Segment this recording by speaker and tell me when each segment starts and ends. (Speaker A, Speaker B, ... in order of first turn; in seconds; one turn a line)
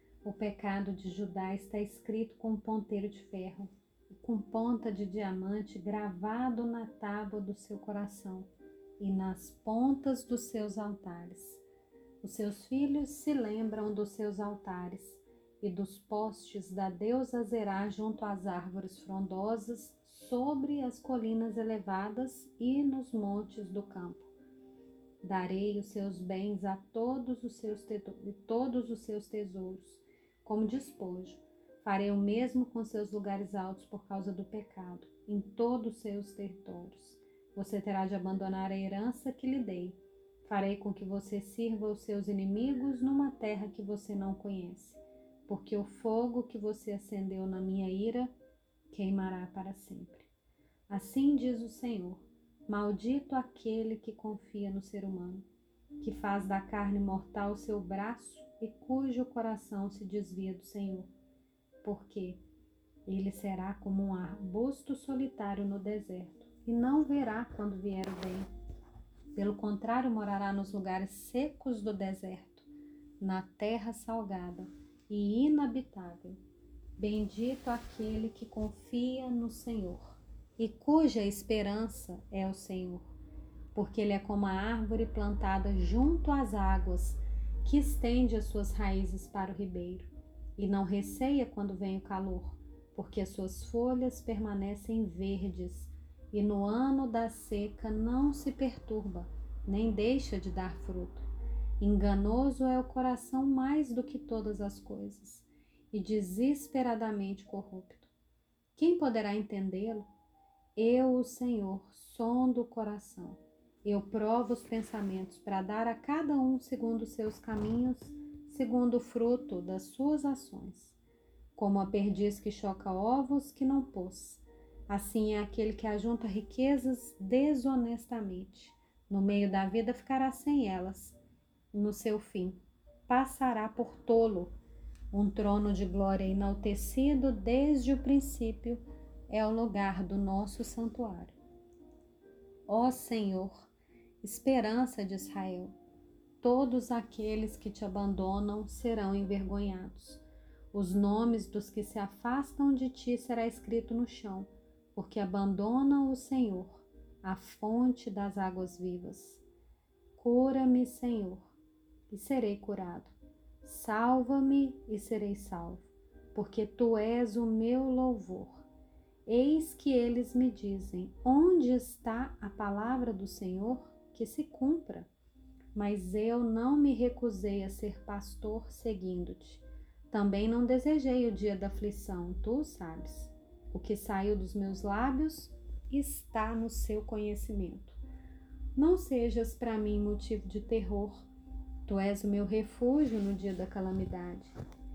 Speaker A: 0.2-8.5
Speaker A: 9.0-11.6
Speaker A: 12.2-24.3
Speaker A: 25.2-48.3
Speaker A: 48.9-50.3
Speaker A: 50.9-55.5
Speaker A: 56.0-61.1
Speaker A: 61.8-62.4
Speaker A: 63.0-68.5
Speaker A: 69.3-72.7
Speaker A: 73.2-76.4
Speaker A: 77.0-83.1
Speaker A: 83.7-101.2
Speaker A: 101.8-108.1
Speaker A: 108.8-110.1
Speaker A: 110.8-121.0
Speaker A: 121.5-131.2
Speaker A: 131.7-134.5
Speaker A: 135.1-141.3
Speaker A: 142.7-143.7
Speaker A: 144.2-145.7
Speaker A: 146.4-159.4
Speaker A: 160.1-161.5
Speaker A: 162.1-168.6
Speaker A: 169.3-175.1
Speaker A: 175.7-188.0
Speaker A: 188.8-191.3
Speaker A: 191.8-194.5